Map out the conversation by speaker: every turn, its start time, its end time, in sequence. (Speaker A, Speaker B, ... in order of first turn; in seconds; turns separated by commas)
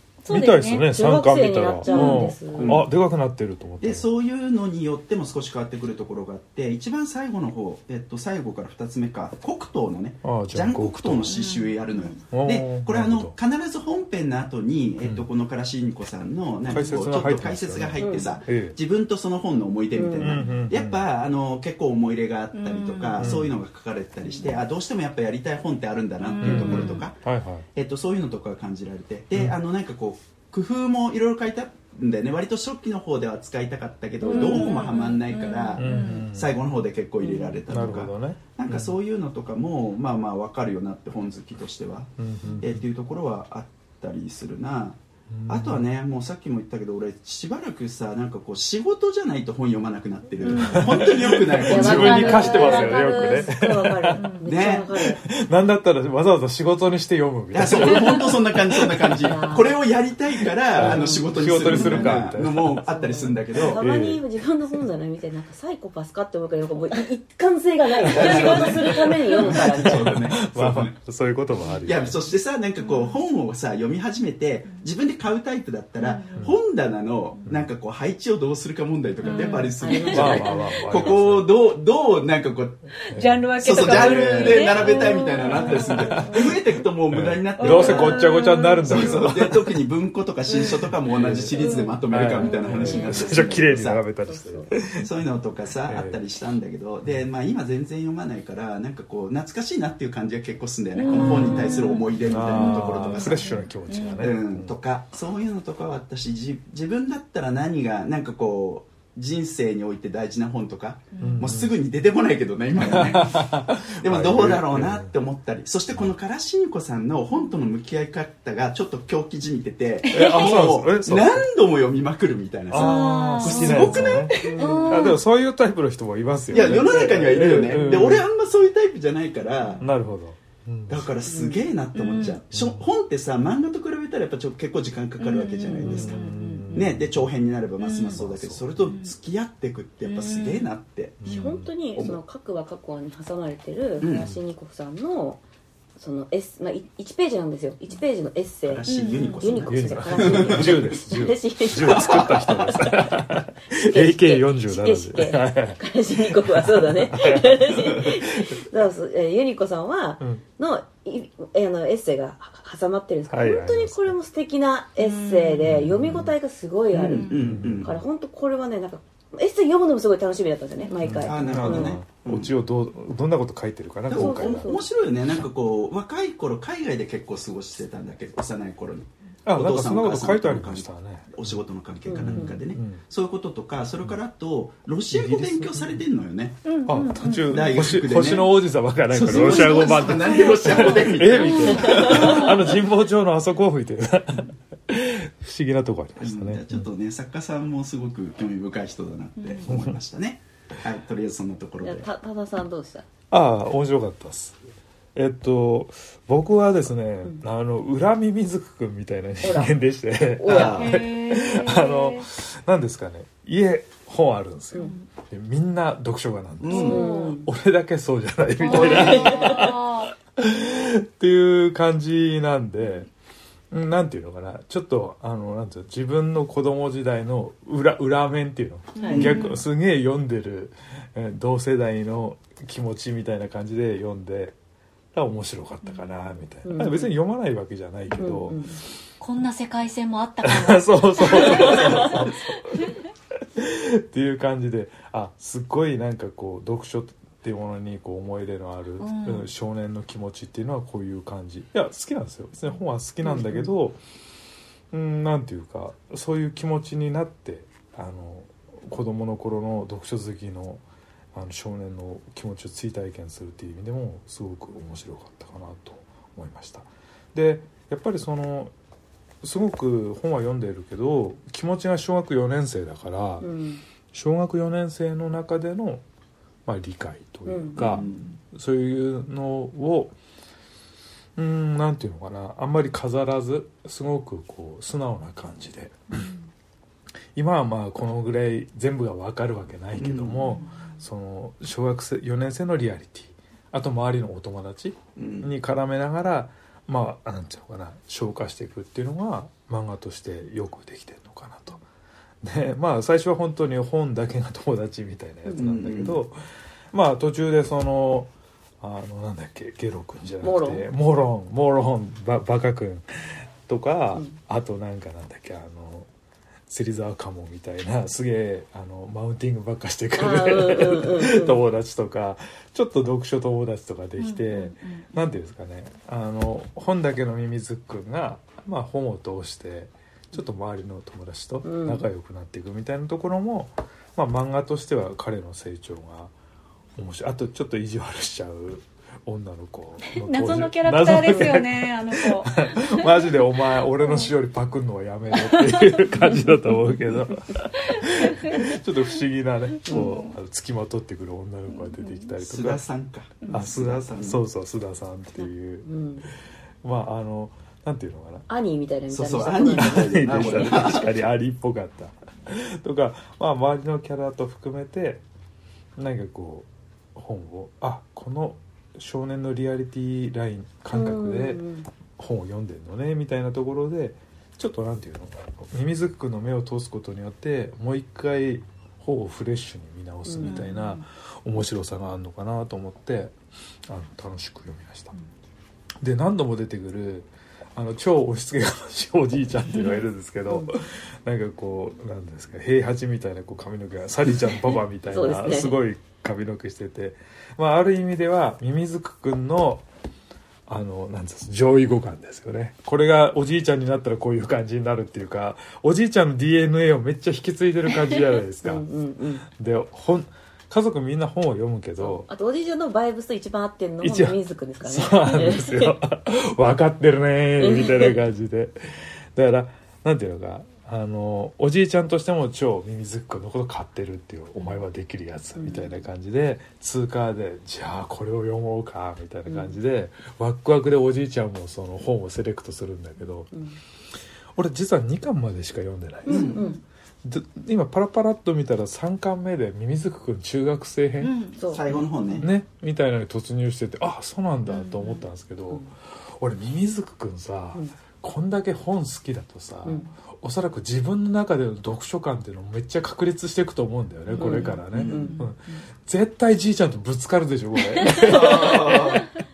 Speaker A: 0.2-0.9, Speaker B: 0.3-4.1, Speaker C: 0.9-2.8, Speaker A: 1.9-2.3, Speaker D: 1.9-2.9, Speaker D: 3.8-27.2, Speaker B: 10.2-11.3, Speaker A: 11.3-12.2, Speaker B: 12.3-13.3, Speaker B: 15.0-15.3, Speaker B: 16.7-18.8, Speaker C: 18.0-18.3, Speaker C: 19.9-20.5, Speaker B: 20.2-21.1, Speaker A: 22.5-23.3, Speaker B: 23.2-23.6, Speaker A: 26.2-27.1, Speaker B: 26.4-27.6, Speaker D: 27.7-53.0, Speaker A: 34.2-36.3, Speaker C: 34.3-34.7, Speaker B: 35.8-36.6, Speaker C: 37.2-37.6, Speaker B: 37.7-39.0, Speaker B: 42.2-42.8, Speaker B: 45.3-45.8, Speaker A: 50.4-53.5, Speaker B: 50.6-54.3, Speaker C: 51.6-55.2, Speaker A: 54.1-54.5, Speaker D: 54.4-55.2, Speaker B: 55.2-58.3, Speaker D: 57.5-63.8, Speaker A: 57.8-58.3, Speaker B: 59.0-59.4, Speaker C: 59.2-59.7, Speaker B: 60.7-62.9, Speaker A: 61.7-62.1, Speaker C: 62.8-70.2, Speaker B: 63.6-64.2, Speaker A: 68.0-69.5, Speaker D: 68.0-70.9, Speaker B: 68.2-68.7, Speaker B: 69.4-72.2, Speaker D: 71.8-83.0, Speaker A: 72.8-73.2, Speaker A: 76.0-76.4, Speaker A: 79.2-80.6, Speaker C: 79.5-80.8, Speaker B: 80.1-81.8, Speaker A: 83.0-86.6, Speaker B: 83.1-86.5, Speaker D: 83.6-94.0, Speaker B: 87.1-89.8, Speaker A: 87.6-89.3, Speaker C: 87.7-88.0, Speaker A: 90.5-90.9, Speaker B: 91.0-95.1, Speaker A: 91.5-93.4, Speaker C: 92.4-93.3, Speaker C: 94.2-94.8, Speaker D: 94.9-103.5, Speaker B: 95.8-96.2, Speaker A: 100.9-104.3, Speaker B: 101.1-104.7, Speaker D: 104.2-124.9, Speaker A: 111.1-111.5, Speaker B: 111.2-111.7, Speaker B: 112.8-115.1, Speaker A: 117.3-117.6, Speaker A: 120.0-120.7, Speaker B: 120.1-121.5, Speaker B: 122.7-128.2, Speaker A: 122.7-125.2, Speaker C: 124.3-125.2, Speaker D: 126.5-129.8, Speaker A: 126.5-126.9, Speaker B: 129.8-131.1, Speaker D: 130.9-136.2, Speaker C: 131.2-131.6, Speaker A: 131.9-132.4, Speaker B: 132.5-132.8, Speaker A: 135.2-136.7, Speaker B: 135.8-137.3, Speaker D: 136.7-142.2, Speaker A: 137.8-138.2, Speaker B: 138.2-138.7, Speaker A: 138.8-139.1, Speaker A: 140.0-140.7, Speaker B: 141.2-141.7, Speaker C: 141.3-145.4, Speaker D: 144.0-144.3, Speaker C: 146.0-172.0, Speaker D: 148.6-150.9, Speaker A: 148.8-149.6, Speaker B: 149.6-158.7, Speaker D: 151.8-152.7, Speaker B: 163.3-164.1, Speaker A: 165.0-165.7, Speaker B: 165.6-166.3, Speaker D: 166.9-168.0, Speaker A: 167.1-167.6, Speaker B: 167.4-167.9, Speaker B: 171.0-174.7, Speaker D: 171.2-172.5, Speaker D: 174.1-186.6, Speaker C: 174.1-174.9, Speaker B: 179.4-181.5, Speaker C: 182.1-182.6, Speaker B: 182.2-183.0, Speaker B: 185.1-186.0, Speaker A: 186.6-187.7, Speaker B: 186.9-196.8, Speaker D: 187.4-188.6, Speaker D: 189.1-192.6, Speaker A: 189.3-192.7, Speaker D: 196.2-202.1, Speaker A: 199.4-199.7, Speaker B: 199.7-199.9, Speaker C: 201.8-203.0, Speaker B: 203.3-204.6, Speaker B: 205.1-223.1, Speaker C: 209.4-209.7, Speaker C: 210.4-210.9, Speaker D: 210.5-211.0, Speaker A: 210.5-212.3, Speaker A: 214.8-215.0, Speaker D: 216.6-217.1, Speaker A: 216.7-217.4, Speaker C: 216.7-217.5, Speaker A: 218.6-220.1, Speaker C: 218.7-219.8, Speaker B: 223.7-234.6, Speaker A: 228.9-229.6, Speaker C: 229.0-229.3, Speaker D: 229.1-229.4, Speaker B: 235.1-238.7, Speaker A: 235.8-236.2, Speaker C: 236.6-237.1, Speaker C: 238.1-238.8, Speaker A: 239.2-243.0, Speaker B: 240.4-254.0, Speaker A: 249.0-249.5, Speaker C: 253.2-253.7, Speaker B: 254.9-260.8, Speaker B: 261.3-268.7, Speaker B: 269.4-273.5, Speaker C: 273.4-273.8, Speaker B: 274.1-276.0, Speaker B: 276.6-280.1, Speaker C: 277.4-277.8, Speaker A: 277.8-278.1, Speaker D: 277.8-278.4, Speaker B: 281.4-286.3, Speaker A: 286.1-286.4, Speaker B: 287.3-301.8, Speaker D: 289.9-290.6, Speaker A: 290.5-290.9, Speaker D: 295.1-295.5, Speaker B: 302.4-306.4, Speaker D: 305.5-306.2, Speaker B: 306.9-316.1, Speaker C: 310.4-310.9, Speaker B: 316.7-336.3, Speaker C: 320.1-321.6, Speaker A: 324.2-325.0, Speaker C: 331.6-332.0, Speaker B: 337.0-352.8, Speaker A: 340.1-343.1, Speaker A: 345.3-346.5, Speaker A: 347.8-348.8, Speaker C: 349.9-350.2, Speaker A: 349.9-350.3, Speaker A: 351.9-352.3, Speaker D: 352.4-354.4, Speaker B: 353.5-355.9, Speaker C: 355.8-356.3, Speaker B: 356.8-358.5, Speaker C: 358.5-361.0, Speaker D: 359.1-361.2, Speaker B: 359.6-365.2, Speaker B: 366.0-371.6, Speaker C: 370.9-371.9, Speaker B: 372.2-383.3, Speaker C: 380.2-380.7, Speaker A: 380.4-381.0, Speaker B: 383.9-385.1, Speaker B: 386.0-399.8, Speaker C: 395.1-395.7, Speaker B: 400.7-408.8, Speaker C: 408.6-409.4, Speaker B: 409.5-412.3, Speaker C: 412.0-415.8, Speaker B: 414.0-433.5, Speaker C: 417.6-418.1, Speaker C: 425.6-425.9, Speaker C: 429.4-429.8, Speaker C: 433.5-433.8, Speaker B: 434.6-436.6, Speaker C: 436.2-436.8, Speaker D: 436.3-436.6, Speaker A: 436.5-436.8, Speaker B: 437.2-441.3, Speaker A: 441.2-441.6, Speaker C: 441.6-442.0, Speaker D: 441.7-442.5, Speaker B: 442.4-459.3, Speaker A: 444.6-445.2, Speaker C: 449.8-450.1, Speaker A: 454.3-455.4, Speaker C: 454.4-455.8, Speaker D: 454.9-455.2, Speaker C: 458.1-459.2